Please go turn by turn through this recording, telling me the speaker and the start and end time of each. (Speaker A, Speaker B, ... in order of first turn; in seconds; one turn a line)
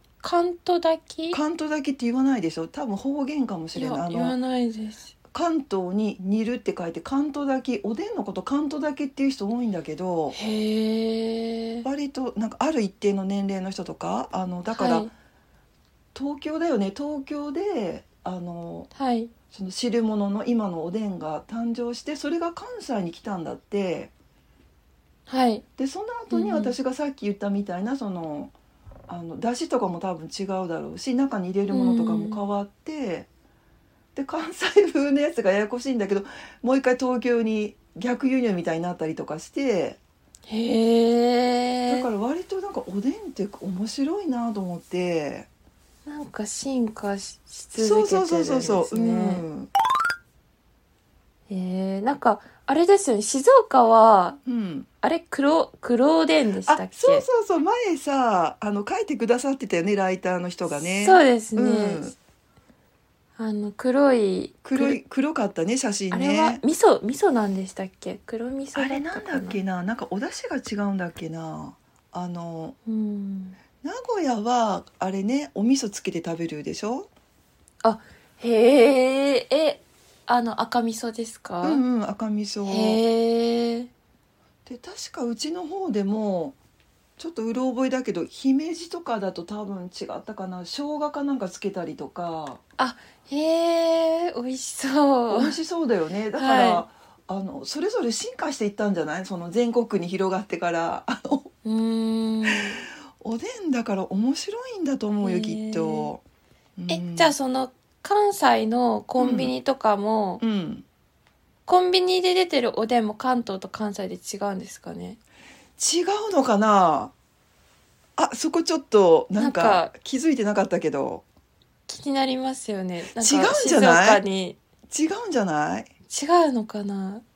Speaker A: 0.2-1.4
Speaker B: 1.3-4.3
Speaker A: 3.7-5.1
Speaker B: 5.3-10.4
Speaker A: 10.3-11.8
Speaker B: 11.8-15.1
Speaker A: 14.7-15.1
Speaker B: 16.1-18.9
Speaker A: 18.9-19.3
Speaker B: 19.5-24.1
Speaker A: 25.3-25.6
Speaker B: 25.8-28.5
Speaker A: 26.3-26.7
Speaker B: 29.1-33.3
Speaker A: 31.7-32.4
Speaker B: 34.1-40.0
Speaker A: 40.5-42.1
Speaker B: 41.9-45.5
Speaker A: 46.0-49.4
Speaker B: 47.8-49.7
Speaker A: 51.5-54.4
Speaker B: 54.4-54.9
Speaker A: 55.0-57.2
Speaker B: 56.7-62.1
Speaker A: 60.8-62.1
Speaker A: 63.4-65.0
Speaker B: 64.6-66.6
Speaker A: 66.1-69.6
Speaker B: 68.7-72.8
Speaker A: 72.8-73.6
Speaker B: 73.8-77.1
Speaker A: 77.8-81.8
Speaker B: 81.6-83.0
Speaker A: 82.7-83.9
Speaker B: 84.7-86.6
Speaker B: 87.2-92.6
Speaker A: 92.8-95.6
Speaker B: 95.3-101.5
Speaker A: 96.3-96.8
Speaker A: 101.6-102.8
Speaker B: 103.2-106.2
Speaker A: 105.2-106.1
Speaker B: 106.8-107.3
Speaker A: 106.9-110.4
Speaker B: 109.2-109.5
Speaker B: 110.4-110.8
Speaker A: 111.7-115.2
Speaker B: 115.8-117.1
Speaker B: 118.2-121.2
Speaker A: 119.3-119.9
Speaker A: 121.9-124.6
Speaker B: 123.2-124.2
Speaker B: 124.9-125.9
Speaker A: 126.1-127.2